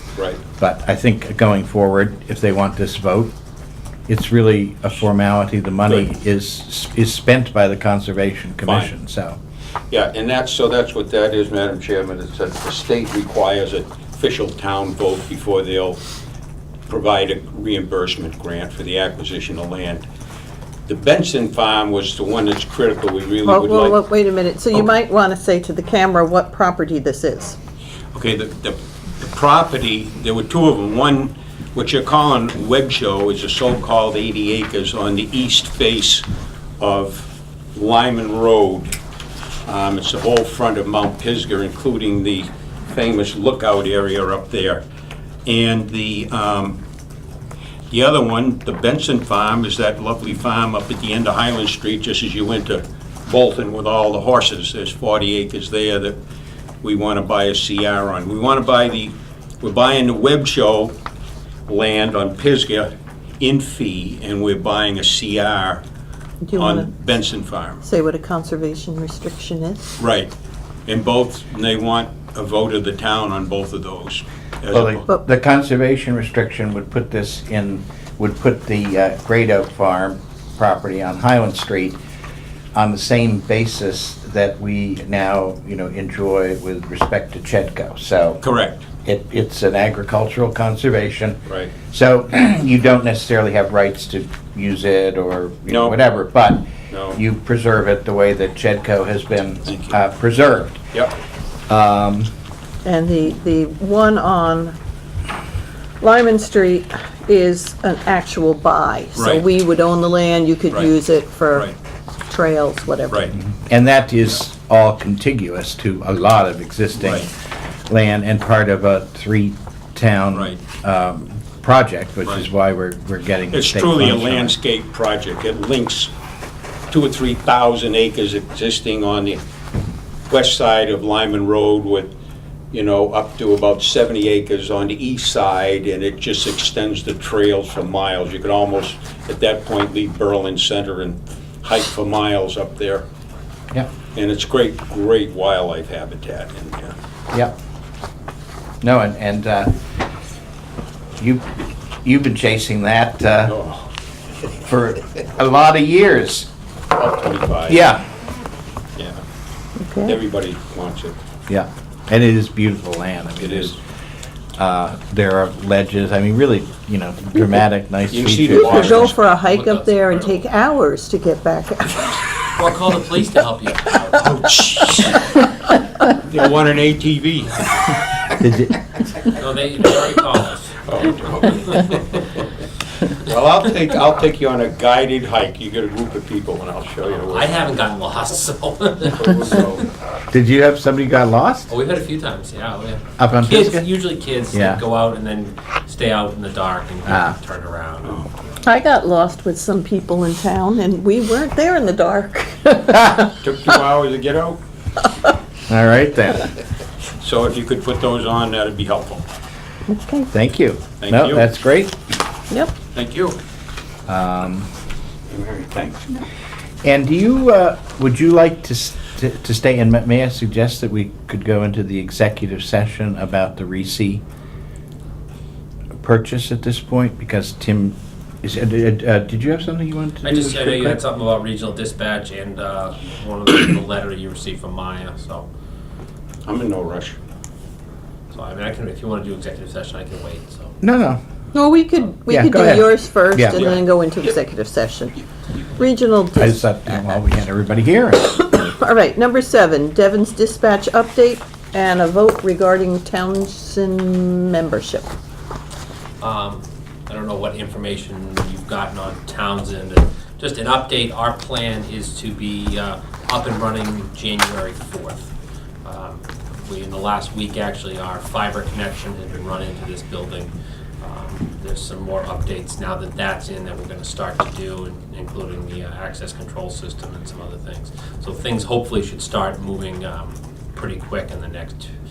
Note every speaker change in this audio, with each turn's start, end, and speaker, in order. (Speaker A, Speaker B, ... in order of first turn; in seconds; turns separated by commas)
Speaker A: 0.1-0.4, Speaker B: 0.6-3.3, Speaker B: 4.1-9.4, Speaker A: 8.6-8.9, Speaker A: 9.9-16.0, Speaker A: 16.9-20.1, Speaker A: 20.9-24.0, Speaker C: 23.4-27.6, Speaker A: 28.1-36.2, Speaker A: 36.8-39.0, Speaker A: 39.6-44.8, Speaker A: 45.5-46.8, Speaker A: 47.9-56.2, Speaker A: 56.8-60.9, Speaker A: 61.7-65.8, Speaker C: 66.4-67.0, Speaker A: 66.5-67.8, Speaker C: 67.8-69.9, Speaker A: 70.0-70.3, Speaker A: 70.9-75.0, Speaker B: 74.7-82.0, Speaker B: 82.7-88.4, Speaker A: 88.4-88.9, Speaker B: 89.0-100.8, Speaker A: 91.5-91.7, Speaker A: 95.7-96.0, Speaker A: 96.9-97.2, Speaker A: 99.7-99.9, Speaker B: 101.7-102.3, Speaker C: 102.8-104.8, Speaker C: 106.0-111.7, Speaker A: 109.2-109.4, Speaker C: 112.3-113.3, Speaker A: 113.1-113.3, Speaker B: 113.4-117.3, Speaker A: 117.0-117.3, Speaker B: 117.9-124.5, Speaker A: 120.3-120.6, Speaker A: 123.5-126.1, Speaker A: 126.9-129.4, Speaker A: 130.3-132.1, Speaker A: 132.7-143.0, Speaker A: 144.1-146.9, Speaker B: 148.8-149.7, Speaker B: 151.2-151.5, Speaker B: 152.0-153.6, Speaker A: 153.5-153.8, Speaker B: 154.5-156.5, Speaker A: 156.9-157.8, Speaker B: 157.7-158.0, Speaker A: 159.0-159.2, Speaker C: 159.8-160.2, Speaker A: 160.1-161.2, Speaker B: 161.5-163.8, Speaker A: 163.4-163.7, Speaker B: 164.6-169.1, Speaker A: 168.1-169.1, Speaker C: 168.5-172.2, Speaker D: 169.3-170.4, Speaker D: 172.6-175.3, Speaker A: 174.5-175.1, Speaker A: 176.2-177.6, Speaker B: 178.4-178.7, Speaker D: 179.3-182.2, Speaker A: 180.9-182.0, Speaker A: 183.3-187.7, Speaker D: 187.0-189.3, Speaker A: 189.1-189.9, Speaker B: 190.3-191.7, Speaker D: 191.7-198.3, Speaker B: 193.2-193.9, Speaker B: 194.5-194.8, Speaker B: 197.1-197.3, Speaker C: 198.6-203.0, Speaker A: 203.4-204.6, Speaker B: 205.7-206.5, Speaker A: 207.2-209.2, Speaker C: 209.9-210.3, Speaker B: 210.3-212.0, Speaker A: 211.0-211.5, Speaker C: 212.5-212.7, Speaker A: 212.9-213.4, Speaker B: 214.1-214.7, Speaker A: 215.3-216.2, Speaker B: 216.8-224.2, Speaker B: 226.0-231.0, Speaker D: 230.2-235.5, Speaker A: 236.4-237.2, Speaker D: 238.3-240.7, Speaker B: 240.8-241.2, Speaker C: 241.5-245.2, Speaker B: 242.3-243.7, Speaker C: 245.8-246.6, Speaker B: 246.4-248.7, Speaker C: 248.6-255.1, Speaker D: 256.2-265.3, Speaker D: 265.8-281.9